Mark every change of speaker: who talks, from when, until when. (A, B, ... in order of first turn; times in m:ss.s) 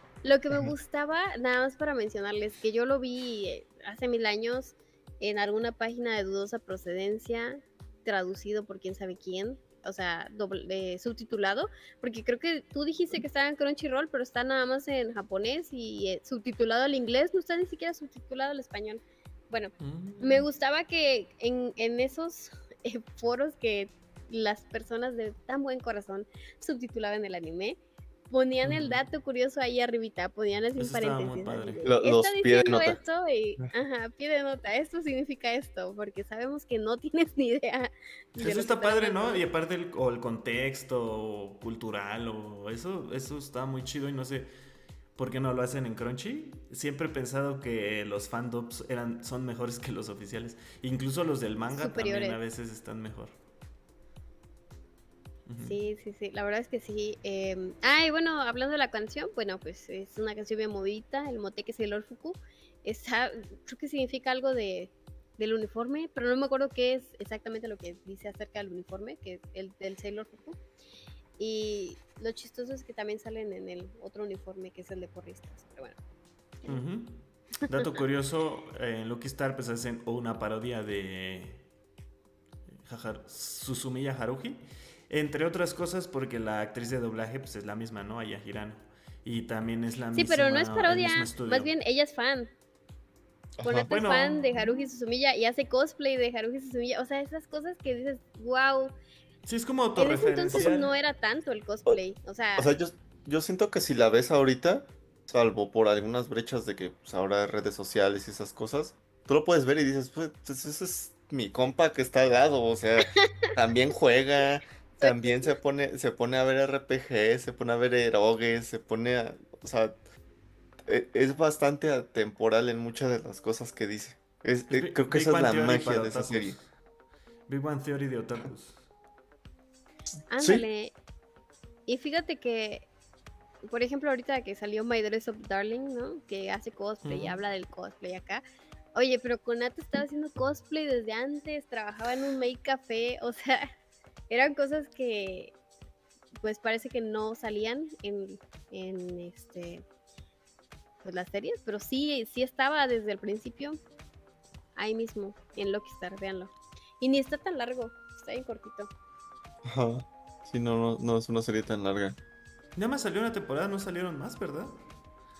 0:00.2-0:27.8 A
0:19.8-0:20.5 B
0:28.3-0:39.4 A
0:28.6-0:29.0 B
0:30.8-0:31.8 B
0:31.8-0:33.0 C
0:38.4-0:44.5 B
0:45.2-0:53.4 B
0:51.7-0:52.4 A
0:55.5-0:55.8 B
0:55.6-1:10.6 A
1:11.4-1:16.0 A
1:16.7-1:21.6 B
1:22.8-1:31.7 B
1:30.1-1:32.5 A
1:33.6-1:33.9 C
1:33.6-1:38.9 A
1:33.8-1:34.8 B
1:39.4-1:40.9 B
1:40.0-1:42.7 A
1:42.6-2:00.0 C
1:53.2-1:53.5 A
1:55.0-1:55.5 A
2:00.8-2:06.6 C
2:04.7-2:06.7 B
2:07.5-2:08.9 B
2:10.3-2:10.9 A
2:10.4-2:10.6 C
2:11.9-2:12.9 A
2:13.6-2:18.4 A
2:17.0-2:17.4 B
2:18.9-2:23.7 A
2:24.3-2:25.5 A
2:26.4-2:29.8 A
2:31.0-2:33.8 A
2:34.8-2:38.9 A
2:39.6-2:42.2 C
2:42.8-2:44.8 B